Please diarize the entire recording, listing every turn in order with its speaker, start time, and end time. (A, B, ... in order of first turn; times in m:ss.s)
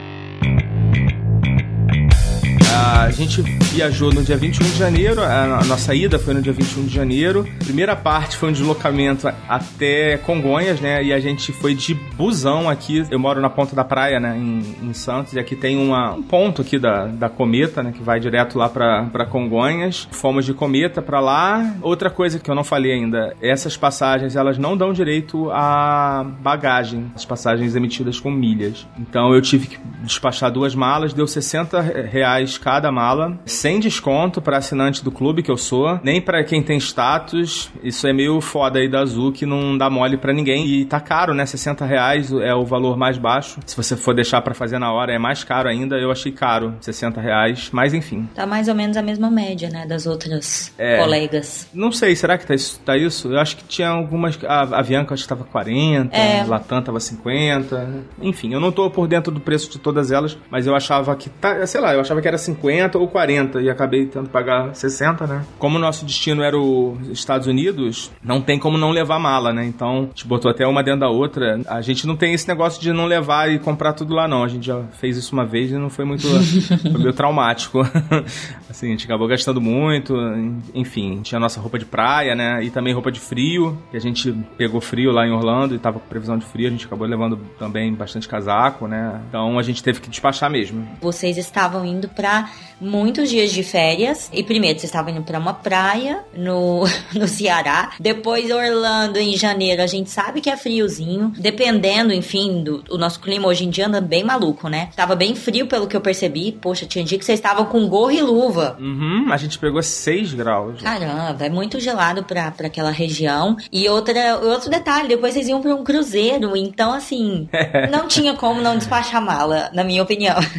0:02.6-0:48.3 A
0:48.4-0:51.7 B
0:50.8-0:51.2 A
0:51.7-1:31.0 A
0:56.1-0:56.6 B
1:16.5-1:16.9 B
1:31.0-1:48.8 B
1:48.8-1:50.9 A
1:50.8-2:00.4 B
1:57.5-1:58.0 A